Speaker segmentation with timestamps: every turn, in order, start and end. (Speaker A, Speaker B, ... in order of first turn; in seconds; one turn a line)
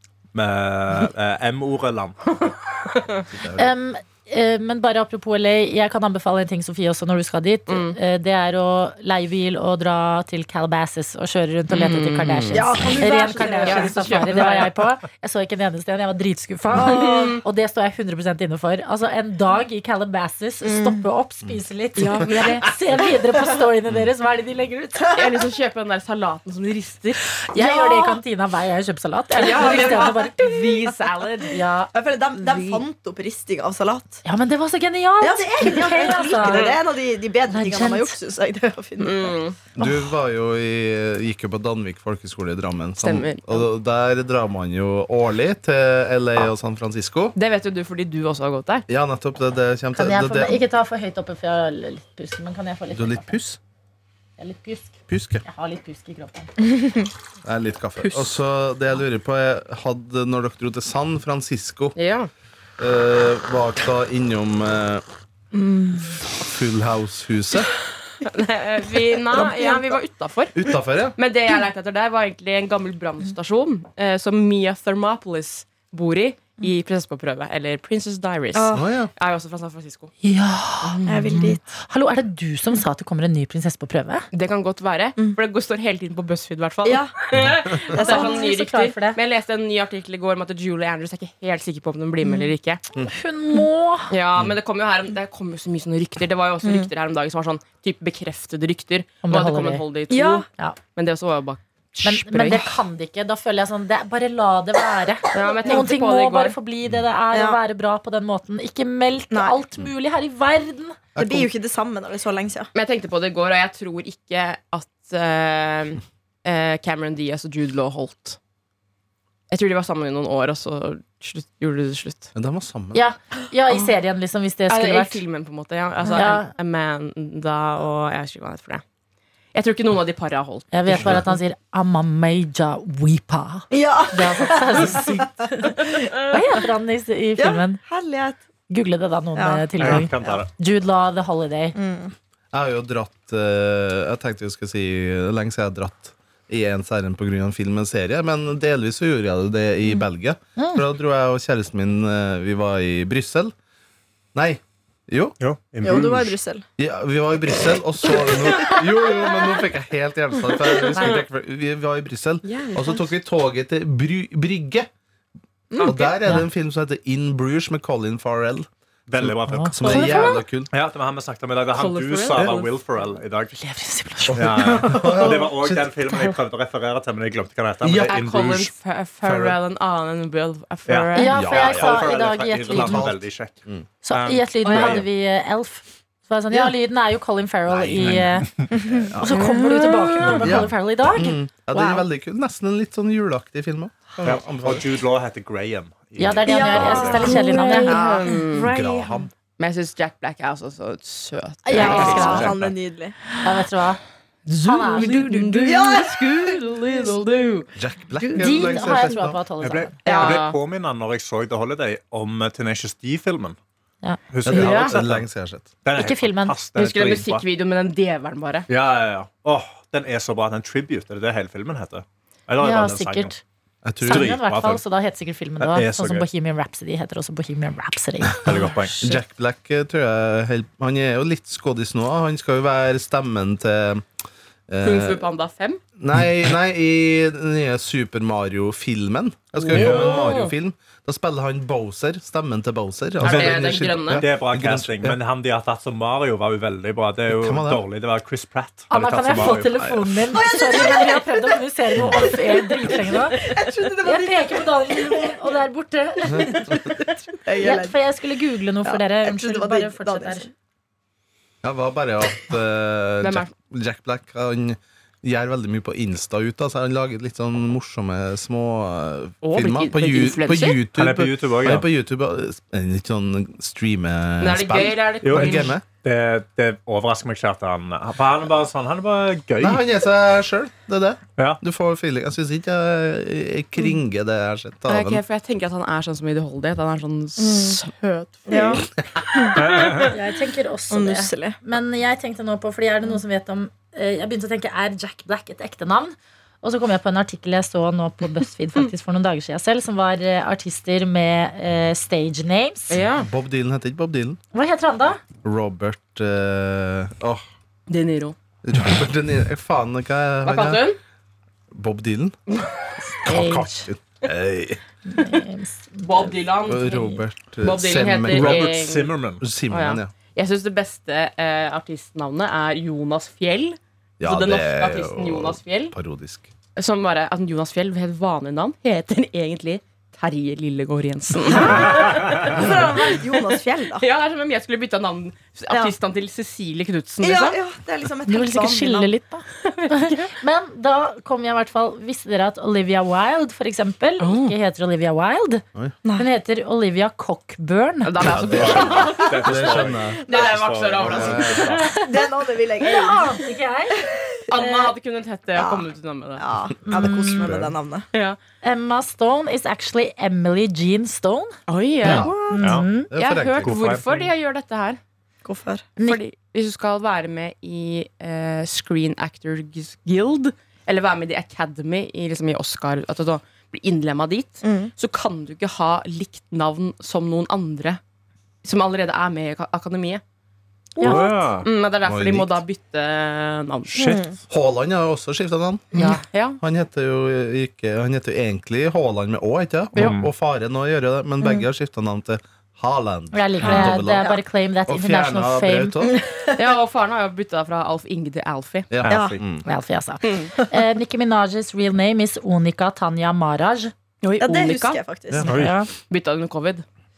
Speaker A: 0.3-2.2
Speaker B: 2.5-3.2
Speaker C: 3.3-3.7
Speaker D: 3.5-25.2
Speaker B: 7.7-8.0
Speaker B: 11.7-14.7
Speaker E: 12.5-14.7
Speaker B: 16.7-17.4
Speaker E: 20.6-21.0
Speaker B: 21.9-22.7
Speaker B: 25.1-27.4
Speaker D: 27.5-31.9
Speaker E: 27.5-28.2
Speaker B: 29.3-31.6
Speaker E: 29.4-30.1
Speaker E: 31.9-34.2
Speaker D: 32.5-32.8
Speaker D: 34.2-36.8
Speaker E: 35.2-39.4
Speaker B: 36.4-36.7
Speaker D: 37.5-38.1
Speaker B: 39.0-39.6
Speaker C: 39.8-47.3
Speaker B: 43.0-43.7
Speaker B: 47.3-48.9
Speaker C: 48.9-50.6
Speaker D: 49.9-53.4
Speaker C: 52.9-53.6
Speaker D: 54.4-56.5
Speaker C: 55.1-55.4
Speaker C: 57.4-62.0
Speaker B: 61.9-62.3
Speaker C: 62.8-65.0
Speaker E: 65.5-66.0
Speaker C: 66.3-67.7
Speaker B: 68.2-70.5
Speaker E: 69.3-69.8
Speaker C: 70.5-71.2
Speaker B: 71.2-80.1
Speaker E: 78.5-78.8
Speaker C: 78.7-79.1
Speaker D: 80.2-84.2
Speaker B: 80.8-81.2
Speaker E: 81.1-81.6
Speaker B: 84.3-92.8
Speaker E: 86.8-87.1
Speaker D: 87.9-89.2
Speaker E: 88.0-88.4
Speaker D: 93.0-94.1
Speaker B: 94.1-102.8
Speaker E: 96.6-96.9
Speaker D: 99.2-99.8
Speaker E: 100.1-100.5
Speaker D: 100.5-100.8
Speaker D: 102.0-111.1
Speaker B: 105.3-106.6
Speaker E: 107.3-107.6
Speaker E: 109.3-109.6
Speaker C: 111.1-111.5
Speaker E: 111.2-112.7
Speaker B: 112.7-118.4
Speaker B: 119.5-122.3
Speaker C: 122.3-123.0
Speaker D: 122.9-125.2
Speaker B: 124.7-128.8
Speaker D: 126.1-126.5
Speaker B: 129.5-131.2
Speaker D: 130.7-137.8
Speaker C: 130.9-131.2
Speaker E: 133.7-136.4
Speaker E: 137.4-138.4
Speaker D: 138.7-141.7
Speaker E: 139.3-140.4
Speaker A: 139.8-140.5
Speaker E: 141.7-142.1
Speaker C: 142.5-153.5
Speaker D: 150.6-150.8
Speaker C: 154.3-155.3
Speaker A: 155.4-156.3
Speaker E: 155.8-156.6
Speaker C: 156.8-164.9
Speaker E: 158.1-158.8
Speaker B: 162.4-163.1
Speaker B: 165.7-166.1
Speaker E: 165.7-166.1
Speaker C: 165.8-168.7
Speaker A: 169.1-170.1
Speaker C: 169.2-170.7
Speaker D: 169.5-170.4
Speaker E: 169.9-170.4
Speaker A: 170.7-173.6
Speaker B: 171.7-172.8
Speaker D: 173.5-175.3
Speaker C: 174.3-175.9
Speaker A: 174.3-178.7
Speaker C: 177.8-178.2
Speaker B: 178.1-181.3
Speaker C: 179.2-179.6
Speaker A: 180.9-185.1
Speaker D: 181.1-183.1
Speaker C: 181.3-182.1
Speaker C: 182.7-183.8
Speaker D: 184.0-188.6
Speaker B: 184.7-185.0
Speaker C: 187.7-188.2
Speaker A: 187.9-188.7
Speaker E: 188.8-190.3
Speaker C: 188.9-189.3
Speaker D: 189.2-192.1
Speaker B: 189.3-190.4
Speaker C: 190.4-194.8
Speaker A: 194.2-197.3
Speaker D: 196.2-199.2
Speaker E: 196.5-198.8
Speaker B: 196.8-198.7
Speaker C: 198.7-199.3
Speaker B: 199.6-202.5
Speaker D: 201.7-202.6
Speaker E: 201.7-203.2
Speaker A: 201.8-202.7
Speaker D: 203.4-205.8
Speaker B: 204.5-207.7
Speaker E: 205.6-206.6
Speaker C: 207.7-209.4
Speaker D: 208.3-210.0
Speaker E: 208.5-208.8
Speaker A: 209.6-213.6
Speaker B: 210.0-210.6
Speaker E: 210.1-210.4
Speaker A: 214.3-215.2
Speaker C: 214.4-215.7
Speaker B: 214.5-215.0
Speaker A: 215.8-217.4
Speaker D: 215.9-216.6
Speaker B: 216.7-218.7
Speaker A: 218.7-223.3
Speaker D: 222.6-223.4
Speaker C: 223.8-224.5
Speaker D: 224.0-229.2
Speaker A: 224.0-224.8
Speaker A: 225.6-226.3
Speaker A: 228.4-229.0
Speaker C: 228.4-234.1
Speaker C: 234.7-235.2
Speaker B: 234.8-235.8
Speaker C: 236.0-245.2
Speaker B: 239.5-240.5
Speaker A: 239.7-240.3
Speaker B: 243.2-244.2
Speaker A: 243.2-249.7
Speaker C: 247.3-247.8
Speaker D: 248.9-256.9
Speaker C: 249.4-250.1
Speaker E: 250.3-251.6
Speaker E: 252.1-255.5
Speaker C: 256.3-256.6
Speaker E: 256.7-257.9
Speaker D: 257.6-260.5
Speaker E: 258.8-260.5
Speaker C: 261.6-275.8
Speaker B: 263.2-263.5
Speaker B: 269.4-270.8
Speaker A: 270.9-271.9
Speaker B: 274.4-275.7
Speaker A: 275.2-279.8
Speaker C: 279.6-285.2
Speaker B: 284.9-288.9
Speaker E: 287.4-287.8
Speaker E: 288.5-289.6
Speaker A: 289.6-290.1
Speaker D: 289.9-303.0
Speaker E: 290.9-291.6
Speaker B: 302.9-303.3
Speaker C: 303.1-304.4
Speaker D: 304.5-305.2
Speaker C: 305.4-307.4
Speaker B: 307.9-308.4
Speaker C: 308.6-310.8
Speaker B: 310.4-311.0
Speaker C: 311.7-312.4
Speaker B: 312.5-313.1
Speaker D: 313.2-313.9
Speaker C: 313.2-314.8
Speaker D: 315.1-316.3
Speaker B: 316.0-319.1
Speaker C: 316.7-318.8
Speaker A: 318.3-319.4
Speaker C: 319.4-320.1
Speaker B: 319.7-325.9
Speaker C: 324.2-326.5
Speaker B: 326.8-333.3
Speaker E: 331.6-334.0
Speaker B: 333.9-337.6
Speaker E: 337.2-339.1
Speaker D: 338.3-345.6
Speaker B: 339.6-340.3
Speaker B: 344.2-344.5
Speaker E: 346.0-346.3
Speaker D: 346.1-348.4
Speaker B: 348.0-349.5
Speaker C: 348.2-350.4
Speaker A: 348.5-351.9
Speaker B: 350.2-352.0
Speaker C: 351.0-351.8
Speaker D: 351.8-352.2
Speaker E: 351.9-353.4
Speaker D: 352.8-354.9
Speaker E: 354.0-354.5
Speaker B: 354.5-356.4
Speaker E: 355.6-355.9
Speaker E: 356.4-358.1
Speaker C: 356.8-357.7
Speaker D: 356.9-357.5
Speaker B: 358.1-358.4
Speaker D: 358.6-361.6
Speaker B: 361.7-362.5
Speaker C: 362.0-362.5
Speaker E: 362.1-362.8
Speaker D: 362.2-363.1
Speaker A: 362.6-364.3
Speaker C: 363.1-363.8
Speaker B: 363.1-365.0
Speaker E: 365.4-365.9
Speaker B: 366.0-378.0
Speaker E: 374.6-374.9
Speaker B: 378.6-380.2
Speaker D: 381.0-381.3
Speaker A: 381.0-381.7
Speaker B: 381.0-384.2
Speaker C: 382.0-382.6
Speaker E: 383.9-384.4
Speaker C: 384.5-396.1
Speaker D: 385.9-386.2
Speaker B: 385.9-386.6
Speaker A: 389.9-390.3
Speaker D: 393.3-396.2
Speaker E: 393.6-394.4
Speaker E: 396.1-396.6
Speaker B: 396.5-398.9
Speaker C: 398.9-399.6
Speaker A: 399.0-399.5
Speaker E: 399.1-399.4
Speaker D: 399.6-403.9
Speaker B: 400.2-400.5
Speaker B: 404.2-405.0
Speaker E: 404.4-405.5
Speaker D: 405.4-405.9
Speaker A: 405.5-405.7
Speaker B: 406.0-406.8